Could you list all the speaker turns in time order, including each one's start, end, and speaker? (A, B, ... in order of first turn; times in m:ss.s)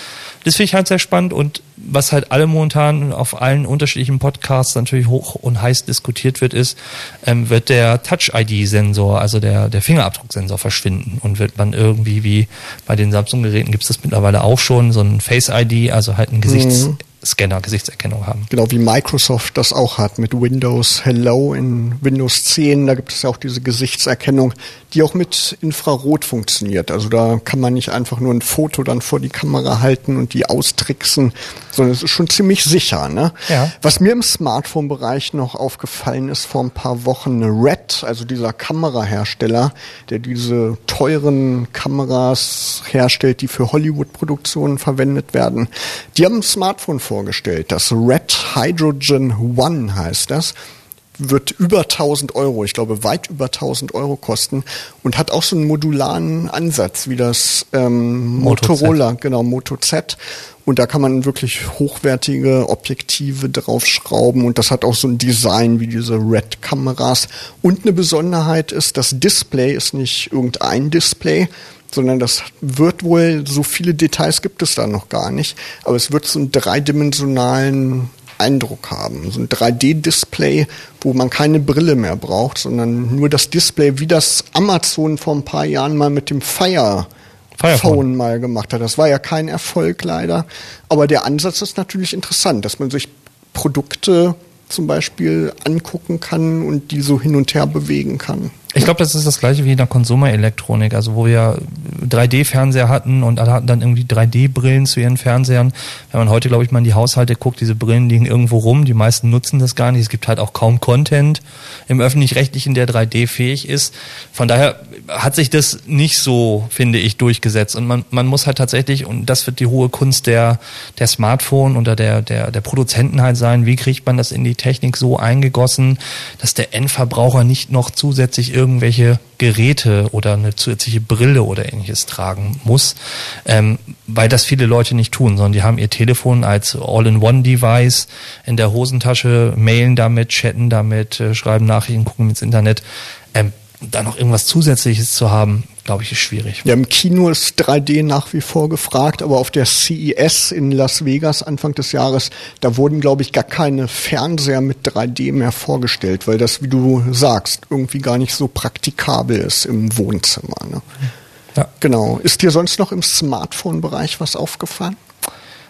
0:00.4-0:18.5 A
0:16.5-0:17.0 B
0:18.5-0:50.5 B
0:33.5-0:33.7 A
0:51.2-1:27.1 B
0:58.4-0:59.0 A
1:27.6-1:28.0 A
1:27.7-1:38.9 B
1:38.7-2:22.8 A
2:23.3-2:26.6 A
2:26.6-2:40.9 B
2:41.8-2:45.0 B